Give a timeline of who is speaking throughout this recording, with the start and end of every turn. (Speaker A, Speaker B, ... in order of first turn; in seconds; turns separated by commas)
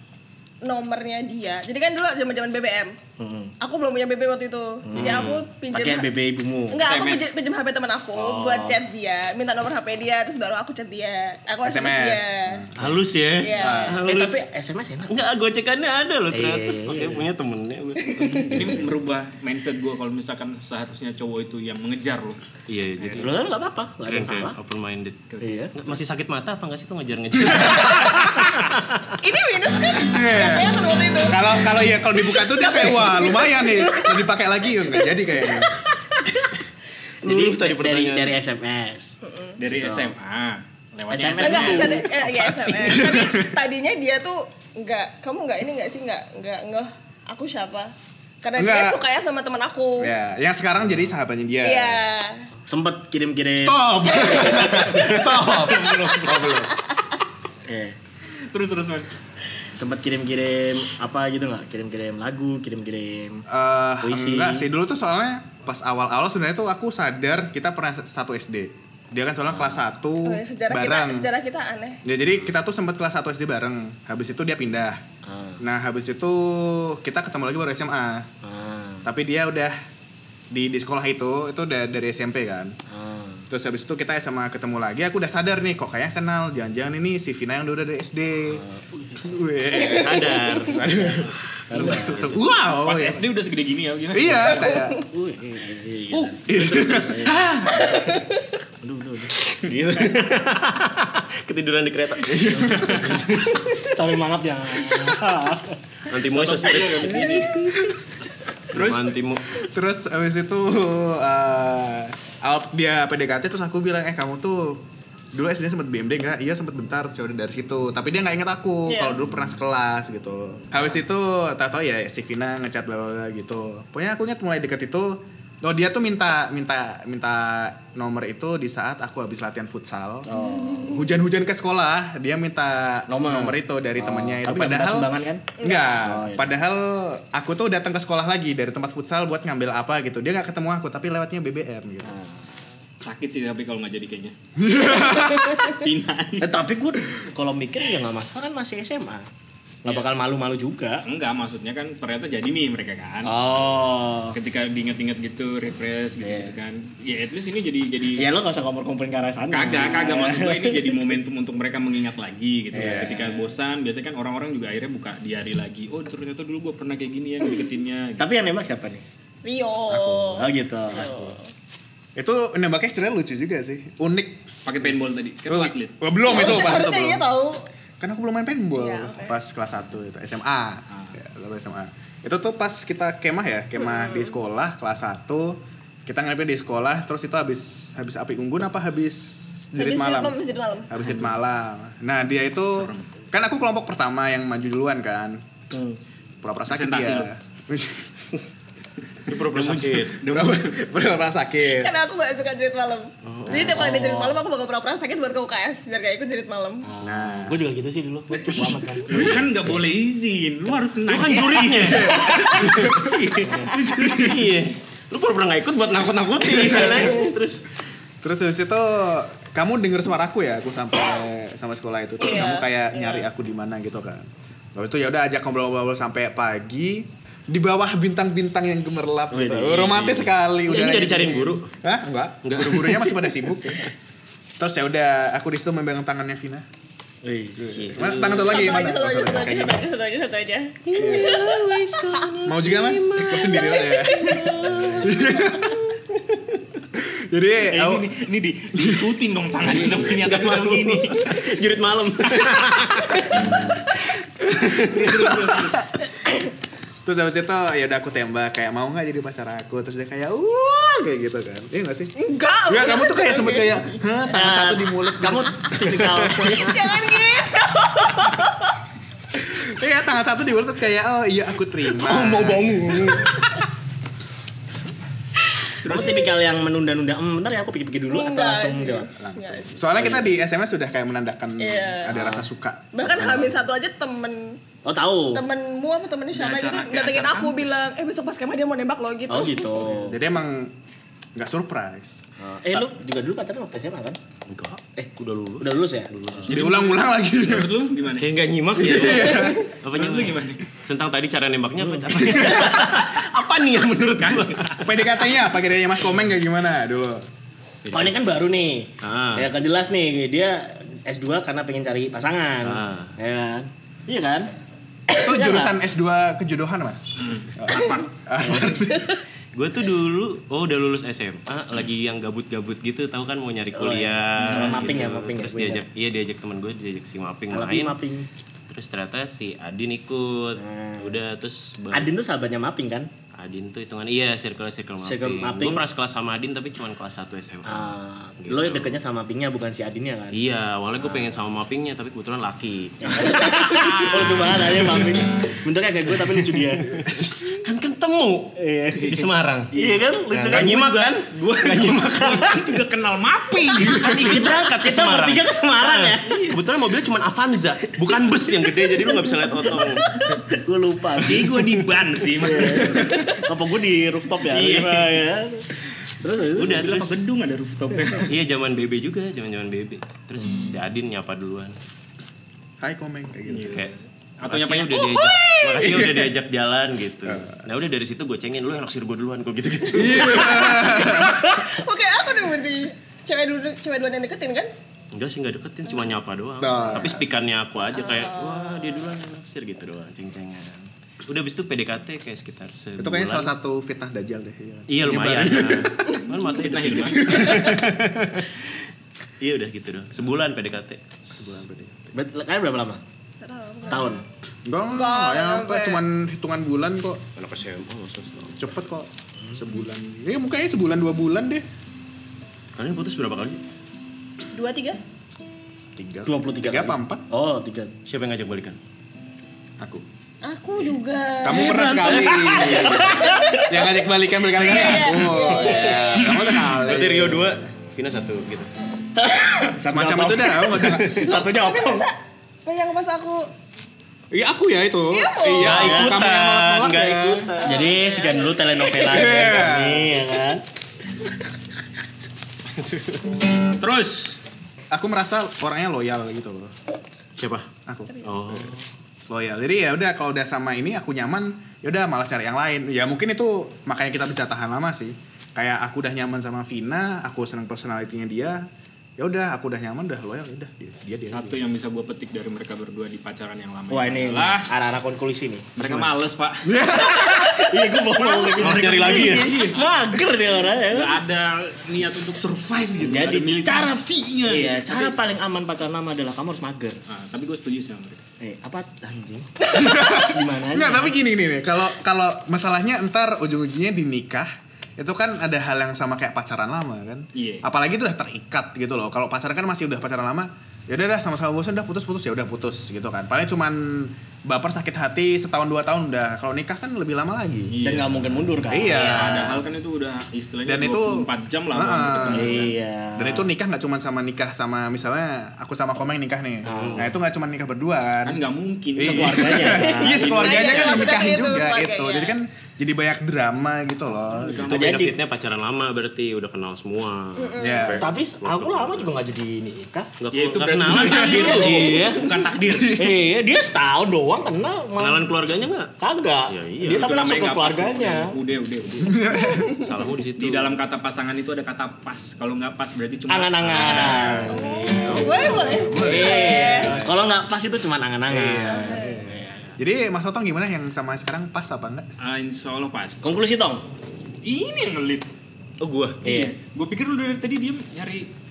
Speaker A: 0.6-2.9, Speaker B: 3.2-3.5, Speaker A: 3.6-6.1, Speaker B: 4.8-6.8, Speaker C: 4.9-5.5, Speaker A: 6.7-12.7, Speaker D: 6.8-7.3, Speaker B: 8.1-8.8, Speaker E: 11.6-12.9, Speaker C: 12.8-14.4, Speaker A: 13.4-14.0, Speaker E: 13.5-14.0, Speaker B: 14.0-15.1, Speaker C: 15.1-18.8, Speaker B: 16.3-17.3, Speaker B: 18.4-18.8, Speaker D: 18.5-22.4, Speaker C: 22.7-23.4, Speaker D: 23.0-23.3, Speaker B: 23.2-24.6, Speaker C: 24.1-25.2, Speaker B: 25.4-25.7, Speaker C: 25.7-28.3, Speaker E: 27.4-28.5, Speaker A: 29.1-31.4, Speaker E: 30.0-35.8, Speaker A: 32.2-34.1, Speaker A: 34.9-36.3, Speaker C: 37.2-38.4, Speaker B: 37.2-39.1, Speaker A: 39.2-39.6, Speaker D: 39.6-42.0, Speaker B: 39.6-40.1, Speaker B: 41.1-42.9, Speaker A: 41.4-50.1, Speaker E: 42.8-43.5, Speaker E: 48.6-49.0, Speaker E: 50.0-52.0, Speaker A: 51.6-52.5, Speaker B: 52.6-56.4, Speaker E: 53.5-56.7, Speaker A: 54.2-54.8, Speaker A: 56.1-57.0, Speaker B: 57.6-58.0, Speaker D: 58.5-59.1, Speaker B: 59.7-63.4, Speaker E: 63.5-71.3, Speaker B: 64.0-64.7, Speaker B: 69.5-69.8, Speaker A: 70.2-72.0, Speaker E: 72.0-75.0, Speaker B: 75.2-75.6, Speaker E: 75.6-78.3, Speaker B: 78.4-79.1, Speaker E: 79.0-79.7, Speaker E: 80.5-82.7, Speaker B: 82.9-83.5, Speaker E: 83.5-88.6, Speaker B: 88.5-89.3, Speaker E: 89.2-93.3, Speaker C: 89.7-92.4, Speaker B: 91.7-92.3, Speaker D: 92.8-94.7, Speaker E: 94.1-95.0, Speaker A: 94.7-95.0, Speaker B: 95.1-97.8, Speaker E: 96.1-97.9, Speaker C: 96.4-97.4, Speaker B: 98.8-99.3, Speaker C: 99.6-103.6, Speaker E: 102.2-103.6, Speaker B: 103.8-105.8, Speaker C: 106.1-107.5, Speaker D: 106.3-107.6, Speaker B: 106.7-107.8, Speaker C: 108.7-109.6, Speaker D: 108.7-109.1, Speaker E: 109.6-130.2, Speaker A: 118.9-119.2, Speaker B: 130.2-130.9, Speaker A: 130.3-131.1, Speaker E: 130.8-142.1, Speaker B: 133.1-135.4, Speaker A: 135.6-136.0, Speaker B: 136.0-136.5, Speaker B: 142.0-142.6, Speaker D: 143.0-144.3, Speaker E: 144.6-145.7, Speaker D: 145.2-146.5, Speaker B: 146.4-149.3, Speaker B: 149.8-151.0, Speaker D: 151.1-153.3, Speaker B: 153.2-154.4, Speaker D: 154.3-158.3, Speaker B: 156.2-156.6, Speaker B: 158.2-161.0, Speaker D: 159.5-168.3, Speaker B: 162.7-163.4, Speaker E: 162.7-163.4, Speaker B: 168.2-169.0, Speaker A: 169.4-171.5, Speaker E: 169.9-170.5, Speaker B: 170.4-171.3, Speaker E: 172.2-174.4, Speaker D: 174.6-176.0, Speaker E: 175.5-177.2, Speaker A: 176.2-177.6, Speaker E: 178.0-190.4, Speaker A: 178.7-179.3, Speaker D: 180.9-181.2, Speaker A: 183.9-184.3, Speaker A: 189.8-190.9, Speaker E: 190.9-195.5, Speaker D: 192.7-193.1, Speaker B: 195.7-196.0, Speaker E: 196.4-198.3, Speaker D: 196.7-197.3, Speaker D: 199.2-200.8, Speaker C: 199.3-200.2, Speaker E: 200.2-201.9, Speaker A: 201.6-206.8, Speaker C: 203.2-203.8, Speaker B: 203.5-204.4, Speaker B: 206.8-209.8, Speaker E: 207.0-207.6, Speaker E: 208.5-209.3, Speaker D: 209.1-214.3, Speaker C: 211.1-213.0, Speaker E: 211.8-213.2, Speaker B: 212.3-212.8, Speaker B: 213.3-213.8, Speaker C: 213.9-217.6, Speaker E: 214.0-214.3, Speaker E: 216.4-217.3, Speaker E: 218.2-233.9, Speaker A: 222.2-223.2, Speaker B: 229.3-230.3, Speaker C: 230.7-231.7, Speaker C: 232.4-233.8, Speaker E: 234.6-236.6, Speaker B: 237.2-237.8, Speaker E: 237.6-239.8, Speaker C: 237.6-238.8, Speaker A: 238.3-241.6, Speaker C: 240.8-246.6, Speaker E: 240.9-241.5, Speaker E: 242.4-244.5, Speaker A: 243.7-244.4, Speaker B: 244.6-245.2, Speaker E: 245.0-245.8, Speaker E: 247.0-248.1, Speaker D: 247.7-251.4, Speaker E: 248.7-249.1, Speaker C: 249.7-255.6, Speaker E: 254.9-255.7, Speaker D: 255.1-255.7, Speaker E: 257.0-262.1, Speaker A: 262.2-263.9, Speaker E: 262.7-266.7, Speaker B: 264.2-266.8, Speaker A: 266.5-268.4, Speaker E: 269.4-273.6, Speaker C: 271.9-273.4, Speaker B: 275.6-279.1, Speaker D: 275.8-276.2, Speaker A: 278.1-279.7, Speaker E: 279.2-283.6, Speaker B: 279.7-280.3, Speaker A: 281.6-282.2, Speaker B: 282.1-282.5, Speaker A: 282.9-284.6, Speaker B: 284.8-285.4, Speaker A: 285.3-289.9, Speaker D: 286.3-287.6, Speaker B: 289.3-290.2, Speaker E: 289.9-290.7, Speaker E: 291.4-292.2, Speaker B: 292.4-294.2, Speaker C: 294.5-296.6, Speaker B: 294.9-296.5, Speaker E: 296.5-297.8, Speaker D: 296.5-298.4, Speaker C: 298.2-305.0, Speaker E: 298.8-299.6, Speaker D: 299.9-300.6, Speaker B: 301.8-302.1, Speaker E: 302.2-303.1, Speaker E: 304.3-307.2, Speaker C: 307.8-308.2, Speaker B: 307.9-314.5, Speaker C: 309.0-309.5, Speaker C: 312.6-313.1, Speaker B: 315.1-315.8, Speaker E: 315.1-319.2, Speaker D: 317.2-317.5, Speaker B: 318.4-318.7, Speaker C: 319.5-328.0, Speaker B: 323.7-325.8, Speaker D: 324.4-325.0, Speaker B: 327.5-328.3, Speaker C: 328.7-332.1, Speaker B: 330.6-331.2, Speaker B: 331.9-333.1, Speaker C: 333.3-339.0, Speaker B: 335.0-335.8, Speaker B: 337.6-340.4, Speaker C: 340.3-344.5, Speaker B: 341.0-341.3, Speaker B: 343.0-347.1, Speaker D: 343.4-344.8, Speaker C: 346.9-352.8, Speaker B: 348.6-351.0, Speaker D: 349.8-354.4, Speaker B: 353.8-356.6, Speaker C: 353.8-360.1, Speaker D: 356.3-356.5, Speaker B: 358.9-366.8, Speaker D: 361.2-363.3, Speaker C: 364.4-365.2, Speaker C: 366.5-367.2, Speaker D: 366.6-368.3, Speaker B: 367.9-368.2, Speaker C: 368.2-371.8, Speaker E: 372.8-373.8, Speaker D: 373.5-375.1, Speaker C: 374.4-380.8, Speaker A: 375.0-375.8, Speaker E: 375.7-376.3, Speaker E: 377.2-377.6, Speaker E: 379.9-381.5, Speaker A: 380.2-384.7, Speaker C: 385.1-393.5, Speaker E: 386.6-387.2, Speaker A: 387.9-389.1, Speaker E: 393.0-396.1, Speaker C: 394.9-397.9, Speaker A: 396.1-396.4, Speaker D: 396.4-397.4, Speaker E: 397.2-398.5, Speaker C: 399.4-402.1, Speaker E: 401.4-401.9, Speaker B: 402.1-403.0, Speaker A: 403.4-404.2, Speaker B: 403.9-404.2, Speaker E: 404.6-407.2, Speaker A: 404.9-406.0, Speaker C: 407.4-408.6, Speaker E: 408.6-411.6, Speaker C: 412.8-413.6, Speaker A: 414.5-415.0, Speaker E: 415.9-417.2, Speaker B: 416.2-417.9, Speaker C: 418.1-418.8, Speaker E: 419.8-420.0, Speaker A: 420.4-423.7, Speaker E: 421.4-427.6, Speaker B: 421.7-423.7, Speaker A: 424.5-426.4, Speaker C: 425.5-426.0, Speaker D: 426.2-426.5, Speaker C: 426.5-428.7, Speaker B: 429.2-432.1, Speaker E: 429.8-431.3, Speaker A: 431.2-433.5, Speaker E: 434.3-437.5, Speaker A: 435.1-436.0, Speaker C: 435.6-437.7, Speaker B: 435.7-436.1, Speaker A: 437.6-439.0, Speaker B: 437.6-440.6, Speaker E: 439.0-440.3, Speaker C: 442.8-443.4, Speaker D: 443.7-444.4, Speaker E: 444.9-446.7, Speaker C: 447.4-447.7, Speaker E: 447.9-448.7, Speaker C: 448.2-448.9, Speaker E: 449.3-458.6, Speaker E: 459.2-461.6, Speaker D: 461.3-464.7, Speaker B: 463.9-466.1, Speaker D: 465.8-466.7, Speaker E: 466.6-467.7, Speaker B: 466.9-471.2, Speaker D: 468.1-469.8, Speaker C: 468.6-469.6, Speaker D: 470.9-475.2, Speaker B: 473.0-477.0, Speaker D: 477.1-478.2, Speaker B: 478.4-481.1, Speaker E: 479.7-497.8, Speaker D: 487.3-487.6, Speaker D: 497.7-502.7, Speaker B: 497.8-499.2, Speaker E: 498.7-499.6, Speaker A: 498.9-499.3, Speaker E: 500.6-502.6, Speaker B: 502.2-503.5, Speaker E: 503.1-508.4, Speaker B: 506.6-507.1, Speaker C: 506.6-507.1, Speaker D: 508.2-511.2, Speaker E: 508.9-514.7, Speaker B: 509.0-510.4, Speaker A: 509.7-512.4, Speaker D: 514.4-514.9, Speaker B: 514.5-515.2, Speaker C: 514.6-519.1, Speaker A: 517.4-517.9, Speaker E: 517.6-518.1, Speaker B: 518.0-520.1, Speaker C: 520.2-522.2, Speaker D: 520.3-523.0, Speaker B: 520.9-522.3, Speaker E: 522.7-523.2, Speaker B: 522.9-525.3, Speaker C: 525.0-525.9, Speaker B: 526.0-528.3, Speaker C: 526.5-527.1, Speaker D: 526.9-529.2, Speaker E: 529.0-529.7, Speaker A: 529.3-529.9, Speaker C: 529.7-530.8, Speaker D: 530.4-534.5, Speaker B: 533.3-539.8, Speaker C: 533.7-534.3, Speaker E: 533.9-537.2, Speaker A: 534.3-537.0, Speaker C: 535.1-535.7, Speaker E: 538.3-539.1, Speaker A: 538.9-539.2, Speaker E: 539.8-542.1, Speaker D: 542.2-543.2, Speaker B: 543.2-543.9, Speaker D: 544.4-545.3, Speaker C: 545.8-546.2, Speaker B: 546.2-546.5, Speaker D: 546.2-548.3